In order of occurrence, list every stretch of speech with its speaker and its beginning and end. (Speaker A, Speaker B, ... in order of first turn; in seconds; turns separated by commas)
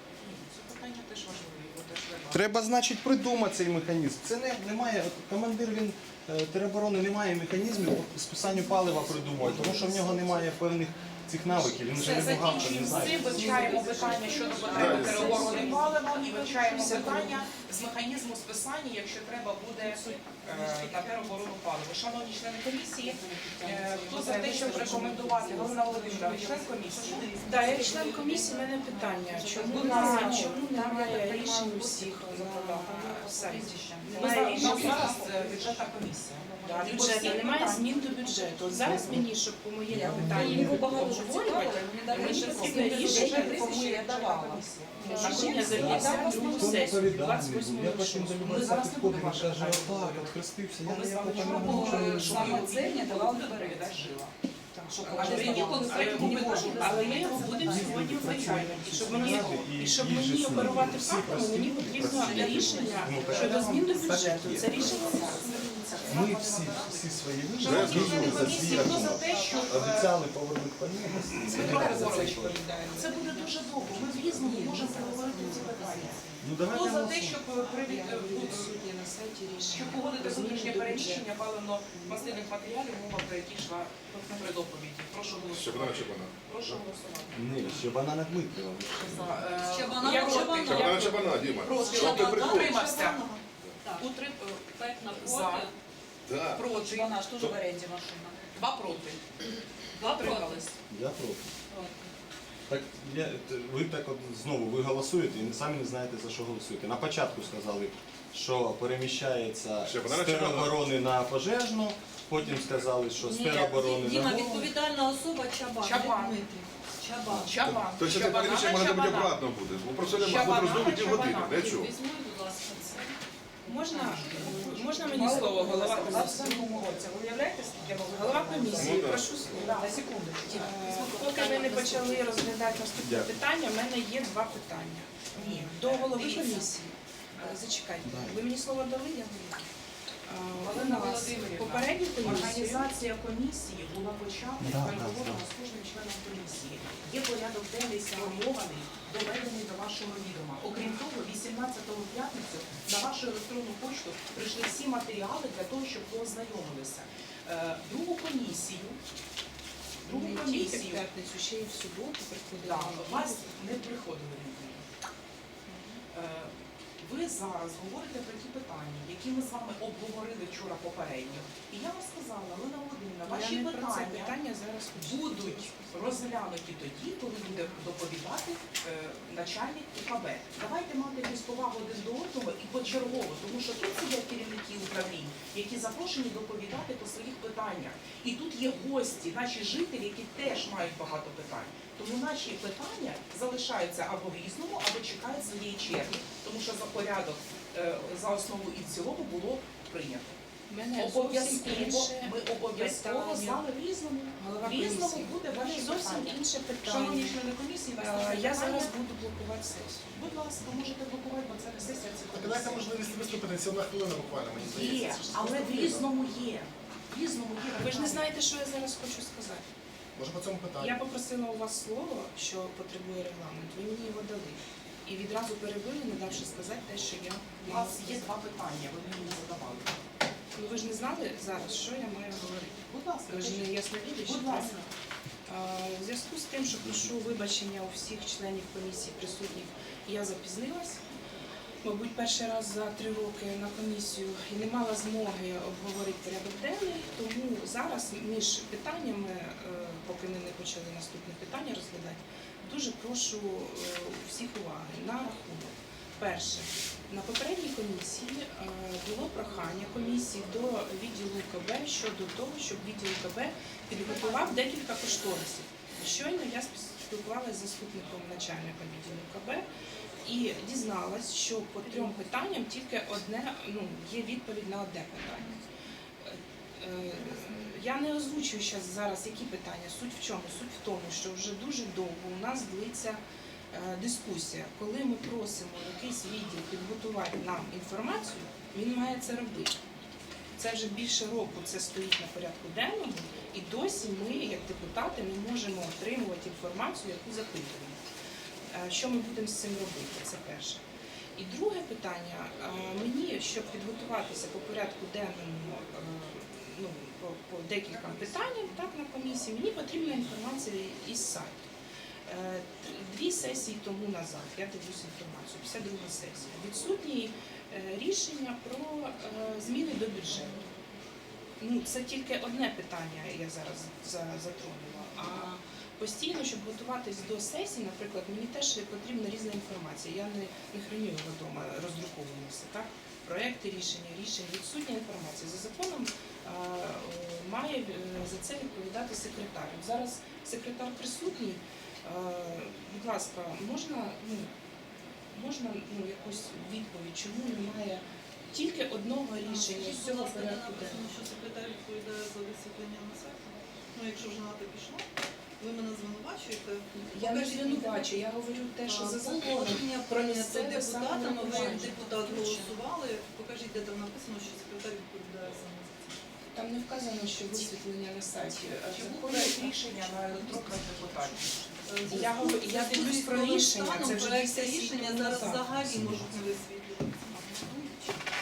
Speaker A: 0.2-2.5, Speaker B: 2.3-13.4, Speaker C: 8.5-9.2, Speaker D: 9.4-9.7, Speaker C: 9.8-10.4, Speaker A: 11.9-27.3, Speaker E: 12.0-17.5, Speaker C: 12.7-14.7, Speaker F: 13.5-17.2, Speaker D: 14.7-15.6, Speaker E: 19.8-20.3, Speaker F: 20.5-21.3, Speaker E: 23.1-26.7, Speaker F: 23.1-27.9, Speaker C: 26.6-29.8, Speaker E: 27.4-35.2, Speaker F: 29.6-37.2, Speaker A: 29.6-31.4, Speaker A: 34.1-39.2, Speaker E: 36.6-43.8, Speaker B: 38.8-39.2, Speaker B: 39.9-41.0, Speaker F: 39.9-46.4, Speaker A: 42.1-47.2, Speaker C: 45.0-45.5, Speaker E: 45.0-48.7, Speaker B: 45.6-52.7, Speaker A: 48.4-54.3, Speaker F: 51.3-54.1, Speaker E: 54.7-66.3, Speaker F: 54.9-57.4, Speaker A: 55.0-59.7, Speaker B: 57.4-65.0, Speaker A: 62.0-70.1, Speaker F: 62.2-63.6, Speaker B: 66.1-72.6, Speaker D: 67.6-69.1, Speaker E: 69.3-70.1, Speaker E: 71.4-76.4, Speaker A: 71.4-78.8, Speaker C: 74.9-75.3, Speaker B: 76.4-77.4, Speaker E: 77.2-81.3, Speaker A: 79.7-87.7, Speaker E: 81.9-82.5, Speaker D: 85.4-86.8, Speaker B: 87.3-89.5, Speaker A: 88.9-93.2, Speaker F: 89.6-91.1, Speaker C: 89.8-90.7, Speaker D: 90.0-92.7, Speaker C: 91.6-94.1, Speaker A: 94.0-95.7, Speaker C: 94.7-95.7, Speaker D: 96.3-96.7, Speaker A: 96.5-97.2, Speaker F: 96.7-98.5, Speaker A: 98.5-99.2, Speaker A: 100.0-100.7, Speaker C: 100.2-100.6, Speaker B: 100.9-101.5, Speaker C: 101.7-102.1, Speaker B: 102.7-114.7, Speaker D: 109.8-110.8, Speaker C: 113.1-117.5, Speaker A: 115.8-116.4, Speaker A: 117.3-119.4, Speaker D: 117.6-121.9, Speaker A: 120.2-121.8, Speaker C: 121.5-123.2, Speaker E: 123.6-127.0, Speaker F: 123.7-130.8, Speaker A: 124.3-126.8, Speaker E: 127.9-139.7, Speaker D: 128.8-129.7, Speaker A: 129.5-129.9, Speaker A: 130.8-131.8, Speaker C: 130.9-131.2, Speaker C: 131.8-132.2, Speaker B: 133.0-133.4, Speaker A: 135.3-136.7, Speaker B: 138.0-138.4, Speaker E: 140.2-142.9, Speaker A: 140.6-159.0, Speaker B: 144.6-145.4, Speaker A: 160.0-161.0, Speaker E: 160.0-163.6, Speaker A: 162.6-164.8, Speaker E: 165.7-165.9, Speaker A: 166.1-174.3, Speaker E: 173.2-175.9, Speaker A: 174.9-200.4, Speaker E: 200.7-203.6, Speaker A: 200.9-208.9, Speaker E: 204.4-210.1, Speaker A: 210.1-212.9, Speaker G: 212.3-216.1, Speaker A: 214.6-218.3, Speaker E: 217.7-219.6, Speaker G: 220.1-221.0, Speaker E: 220.8-228.3, Speaker A: 227.6-230.0, Speaker E: 230.6-234.9, Speaker A: 232.9-234.8, Speaker E: 235.5-241.0, Speaker E: 241.8-269.7, Speaker C: 264.1-264.5, Speaker E: 270.2-275.6, Speaker C: 271.8-272.3, Speaker E: 276.2-289.7, Speaker E: 290.6-298.0, Speaker E: 298.7-300.8, Speaker E: 301.4-311.7, Speaker E: 312.3-320.6, Speaker E: 321.6-344.5, Speaker E: 345.3-351.0, Speaker C: 349.4-355.1, Speaker C: 355.6-358.2, Speaker E: 356.9-362.7, Speaker C: 358.8-366.1, Speaker E: 366.5-371.1, Speaker A: 368.9-371.7, Speaker C: 370.1-378.2, Speaker E: 372.0-375.8, Speaker B: 375.9-376.2